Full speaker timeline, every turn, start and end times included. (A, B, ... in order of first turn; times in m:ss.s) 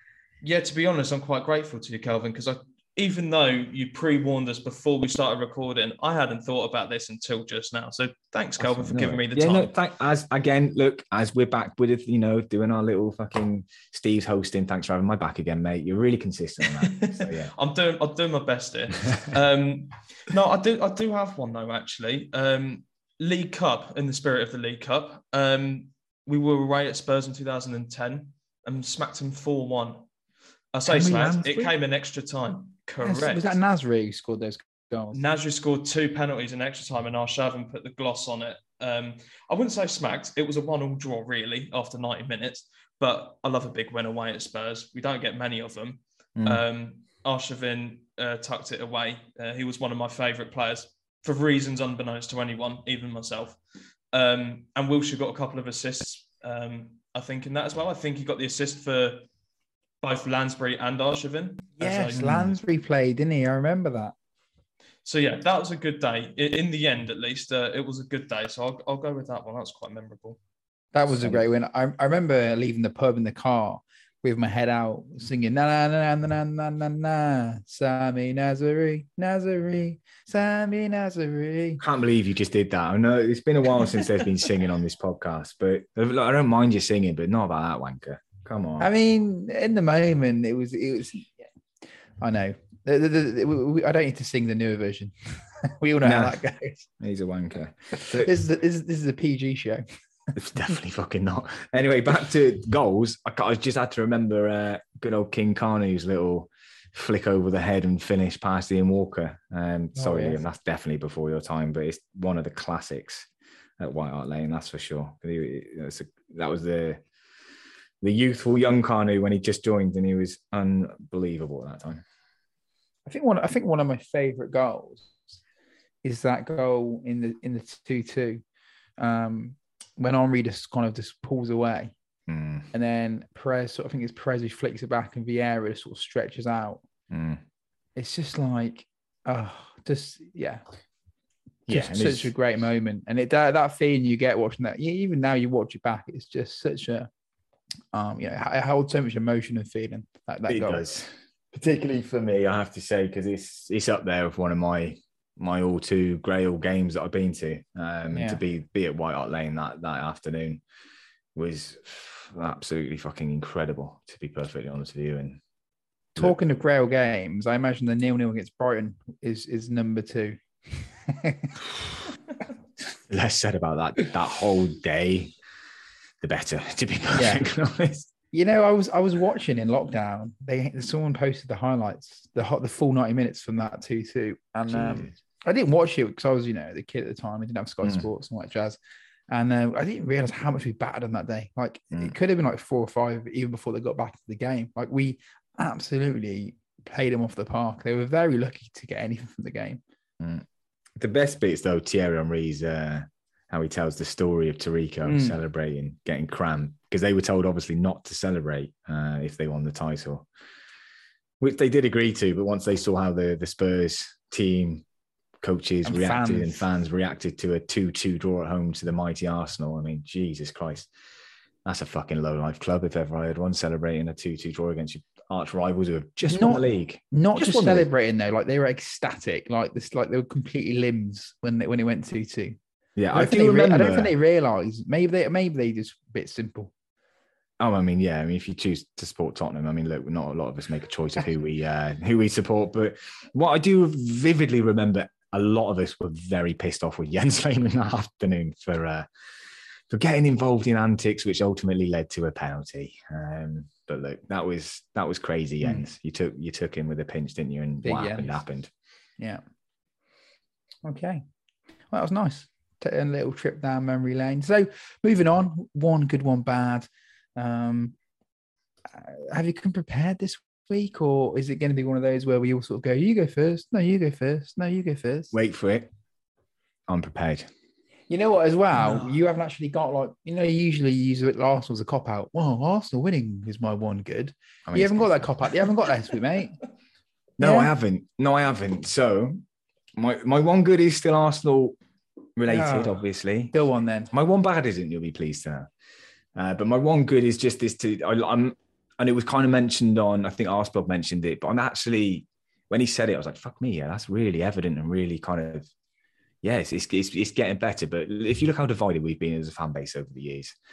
0:00.4-0:09.7 A
0:08.6-0:17.5 B
0:16.6-0:30.0 A
0:30.7-0:33.6 A
0:30.8-0:31.7 B
0:33.0-0:35.2 C
0:35.1-0:53.6 A
0:46.4-0:46.6 B
0:54.1-0:59.3 A
1:00.0-1:02.6 A
1:01.8-1:04.1 C
1:05.0-1:10.4 A
1:10.9-1:21.8 C
1:21.8-1:28.9 B
1:28.8-1:31.4 C
1:32.2-1:36.9 C
1:36.0-1:36.4 B
1:37.0-1:38.3 B
1:38.0-1:39.8 C
1:40.3-1:57.0 B
1:50.0-1:50.4 C
1:58.0-2:02.0 B
2:03.1-2:05.3 C
2:06.0-2:08.4 C
2:09.0-2:11.9 C
2:12.3-2:12.7 B
2:12.7-2:16.8 C
2:17.1-2:17.4 B
2:18.0-2:20.6 C
2:21.7-2:22.3 B
2:21.7-2:27.1 C
2:27.9-2:30.8 C
2:30.5-2:40.6 B
2:38.1-2:38.4 C
2:41.3-2:45.4 B
2:46.2-2:50.4 C
2:51.1-2:51.6 C
2:52.9-2:55.3 B
2:56.2-2:58.1 B
2:57.1-2:57.4 C
2:58.3-3:08.8 C
3:04.7-3:05.1 B
3:09.3-3:19.8 C
3:20.2-3:20.4 B
3:21.0-3:30.3 B
3:25.1-3:25.3 C
3:31.4-3:34.8 B
3:35.4-3:40.9 B
3:35.8-3:36.6 C
3:41.6-3:47.9 B
3:46.2-3:52.6 C
3:53.0-3:54.1 B
3:53.1-3:56.7 C
3:57.6-4:09.1 B
4:09.9-4:18.7 B
4:17.8-4:18.4 C
4:20.8-4:21.2 C
4:21.9-4:27.9 C
4:28.9-4:35.3 C
4:35.3-4:35.9 B
4:36.9-4:37.5 B
4:38.1-4:46.6 C
4:44.7-4:45.2 B
4:47.4-4:49.4 B
4:47.4-4:47.7 C
4:50.0-4:51.8 B
4:52.4-4:53.5 B
4:52.5-4:53.0 C
4:53.5-4:54.1 C
4:54.1-4:55.7 B
4:56.4-5:05.7 B
5:06.4-5:10.6 B